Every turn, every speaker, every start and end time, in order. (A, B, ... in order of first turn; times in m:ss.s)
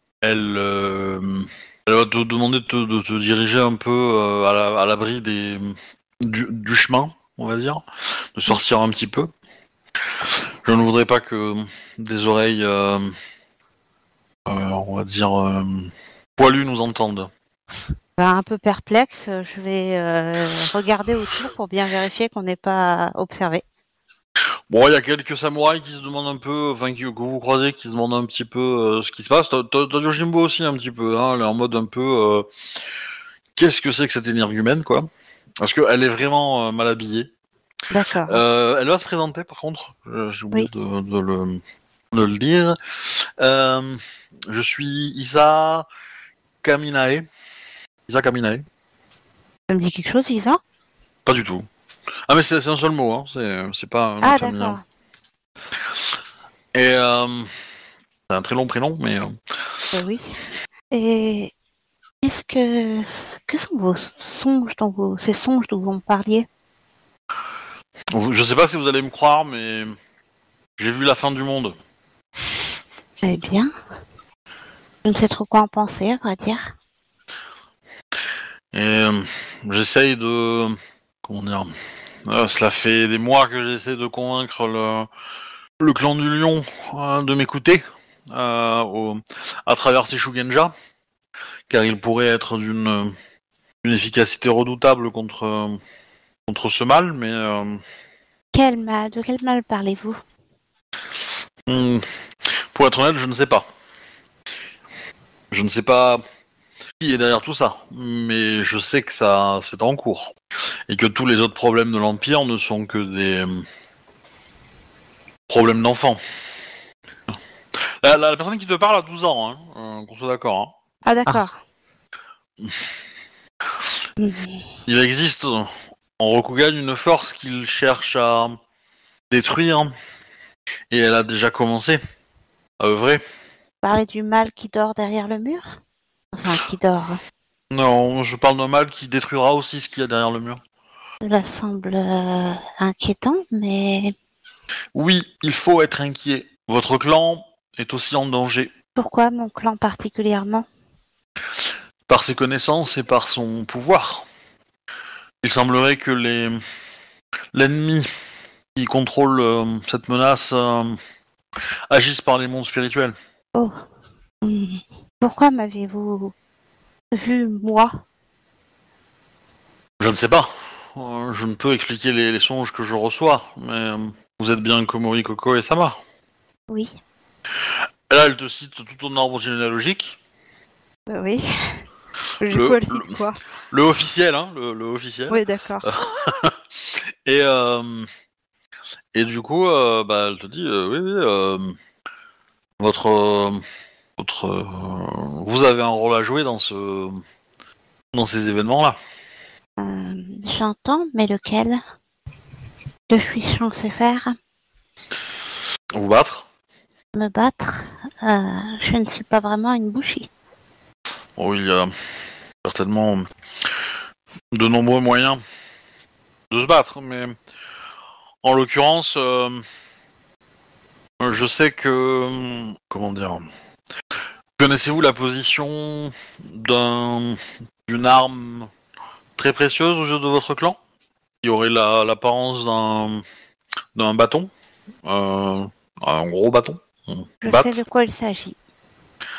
0:00.2-0:09.3 A
0:10.2-0:13.2 A
0:14.5-0:17.3 A
0:18.2-0:23.6 B
0:24.7-0:32.5 A
0:33.5-0:35.1 A
0:35.6-0:37.3 A
0:37.9-0:38.4 B
0:38.2-0:45.9 A
0:46.6-0:47.3 A
0:48.1-0:48.6 A
0:49.7-0:50.6 B
0:51.2-0:51.7 A
0:52.3-0:54.8 A
0:54.2-0:54.8 B
0:56.7-0:57.5 A
0:58.3-0:59.9 A
0:59.9-1:00.3 B
1:00.9-1:01.5 B
1:02.2-1:06.5 B
1:08.1-1:10.0 A
1:10.8-1:11.8 A
1:13.2-1:13.7 B
1:15.0-1:16.7 B
1:18.7-1:21.7 A
1:22.2-1:25.1 A
1:25.8-1:30.7 A
1:31.7-1:33.2 A
1:33.8-1:35.8 A
1:36.5-1:37.8 A
1:38.5-1:40.2 B
1:41.6-1:43.7 A
1:45.5-1:46.2 A
1:47.0-1:50.4 A
1:50.9-1:53.7 A
1:55.5-1:56.2 A
1:57.3-2:00.7 A
2:01.0-2:01.6 B
2:04.2-2:04.6 B
2:04.8-2:08.6 A
2:09.3-2:09.9 A
2:10.9-2:12.0 A
2:12.8-2:13.2 A
2:13.8-2:15.8 B
2:16.3-2:17.2 B
2:17.7-2:20.6 A
2:21.2-2:24.1 B
2:24.9-2:28.7 A
2:29.0-2:30.6 B
2:32.1-2:34.3 A
2:35.4-2:36.6 A
2:37.5-2:38.1 A
2:38.7-2:41.0 A
2:41.9-2:43.2 A
2:43.5-2:43.8 B
2:44.4-2:46.3 B
2:47.1-2:48.0 B
2:50.0-2:56.0 A
2:57.6-3:00.2 A
3:01.1-3:01.8 B
3:02.4-3:03.4 B
3:02.5-3:03.2 A
3:03.7-3:08.1 A
3:05.3-3:05.9 B
3:09.1-3:11.8 A
3:12.8-3:13.6 A
3:14.2-3:17.2 A
3:18.1-3:19.0 A
3:19.8-3:21.8 B
3:23.1-3:24.4 B
3:25.9-3:26.4 A
3:27.1-3:30.3 B
3:31.4-3:31.9 A
3:32.6-3:33.2 A
3:34.5-3:35.4 A
3:36.5-3:37.4 A
3:38.4-3:39.6 A
3:41.2-3:43.5 A
3:44.6-3:48.7 A
3:49.4-3:50.8 A
3:51.4-3:53.2 A
3:54.0-3:54.5 A
3:55.0-3:57.8 A
3:57.4-3:58.6 B